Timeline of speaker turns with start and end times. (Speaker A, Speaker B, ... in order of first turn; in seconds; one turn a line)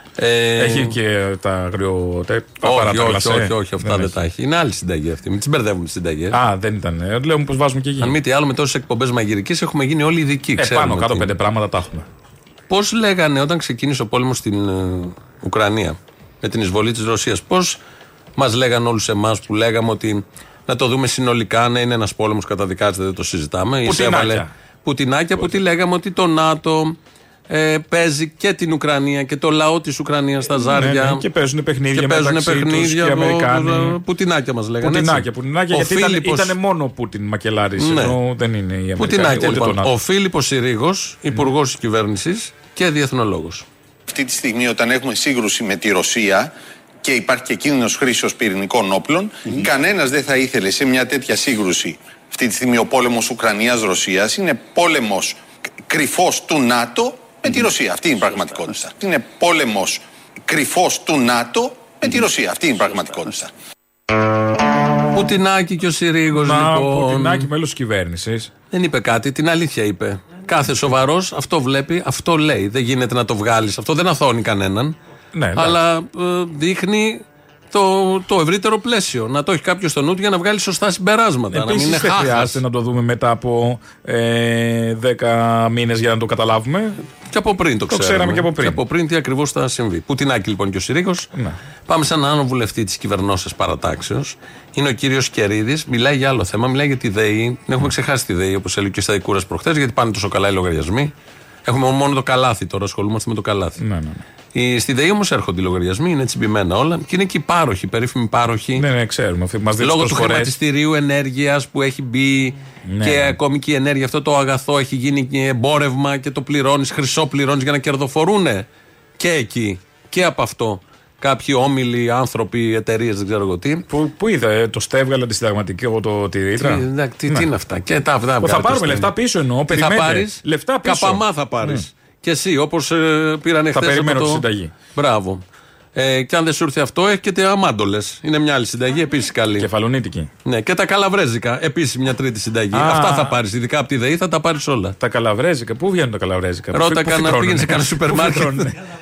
Speaker A: 0.2-0.9
Speaker B: 0.6-4.1
Speaker A: 2.6-6.4
Speaker B: 6.3-8.2
Speaker A: 8.0-11.3
Speaker B: 10.6-12.1
Speaker A: 12.7-17.8
Speaker A: 18.4-27.0
Speaker B: 23.8-24.5
Speaker A: 27.5-31.2
Speaker B: 30.6-34.0
Speaker A: 31.9-36.5
Speaker B: 34.8-39.9
Speaker A: 37.8-38.2
Speaker A: 39.0-43.6
Speaker C: 44.1-46.5
Speaker C: 47.0-63.5
Speaker A: 65.1-67.5
Speaker B: 66.3-68.5
Speaker A: 68.7-75.0
Speaker B: 75.3-75.8
Speaker A: 75.5-82.6
Speaker B: 81.5-87.0
Speaker A: 87.3-91.3
Speaker B: 87.9-88.8
Speaker A: 91.9-101.1
Speaker A: 101.6-103.8
Speaker B: 103.8-104.2
Speaker A: 104.5-108.8
Speaker B: 108.8-110.5
Speaker A: 109.8-118.7
Speaker B: 112.9-113.3
Speaker A: 119.2-123.8
Speaker B: 123.9-127.4
Speaker A: 126.6-129.1
Speaker B: 128.4-131.8
Speaker A: 129.7-135.4
Speaker B: 133.7-134.7
Speaker A: 135.9-139.7
Speaker B: 139.6-140.3
Speaker A: 140.4-145.0
Speaker B: 142.7-143.3
Speaker B: 145.0-148.7
Speaker A: 146.7-148.7